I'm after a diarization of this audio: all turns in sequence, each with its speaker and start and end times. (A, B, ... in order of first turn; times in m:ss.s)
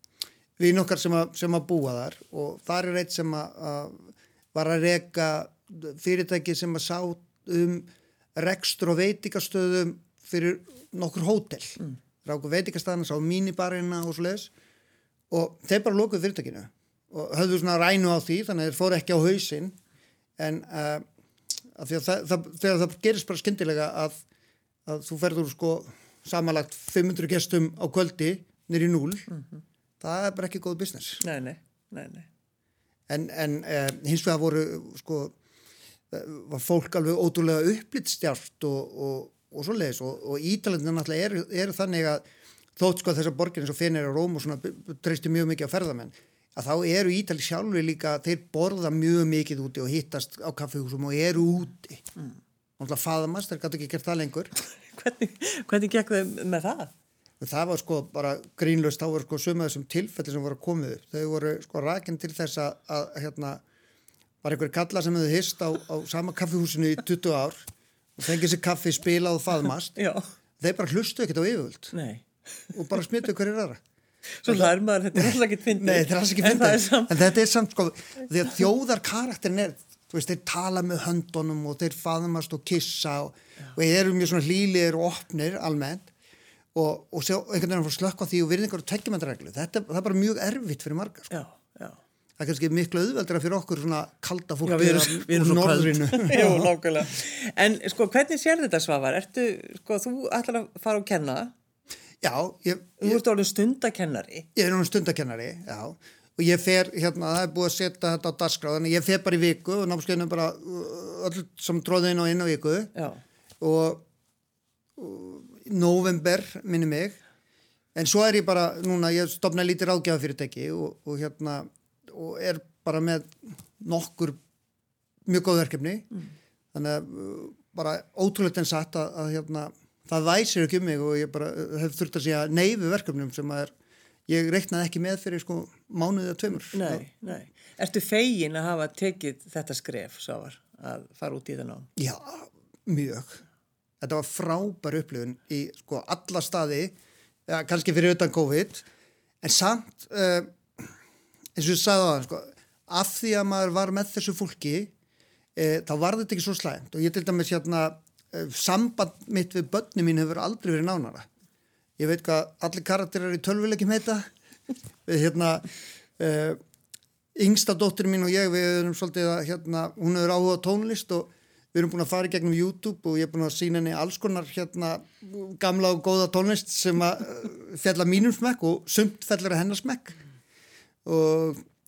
0:00.6-0:14.5 A
0:15.3-0:19.8 A
0:20.4-0:21.0 A
0:21.7-0:24.2 A
0:24.8-0:29.3 A
0:30.0-0:31.2 A
0:31.2-0:32.3 B
0:33.1-0:35.3 A
0:36.1-0:42.2 A
0:42.8-0:52.1 A
0:52.8-0:54.5 A
0:54.8-0:56.9 B
0:57.4-1:03.6 A
1:04.4-1:10.0 A
1:10.0-1:10.2 B
1:10.6-1:11.9 A
1:11.9-1:12.2 B
1:12.7-1:13.8 A
1:14.4-1:17.2 B
1:14.4-1:26.1 A
1:26.7-1:31.3 A
1:31.3-1:32.0 B
1:32.4-1:36.7 A
1:34.6-1:41.5 B
1:42.2-1:43.2 A
1:43.0-1:44.5 B
1:44.5-1:52.9 A
1:52.9-1:53.2 B
1:53.6-1:54.0 A
1:55.0-1:57.2 A
1:57.9-2:04.4 A
2:05.2-2:06.1 A
2:06.7-2:13.7 A
2:14.3-2:17.0 A
2:16.7-2:21.9 B
2:22.0-2:23.4 A
2:24.0-2:26.9 A
2:27.5-2:28.8 A
2:29.4-2:30.9 A
2:31.6-2:34.9 A
2:35.6-2:41.3 A
2:42.0-2:44.3 A
2:45.0-2:46.6 A
2:47.3-3:00.2 A
3:01.0-3:01.6 A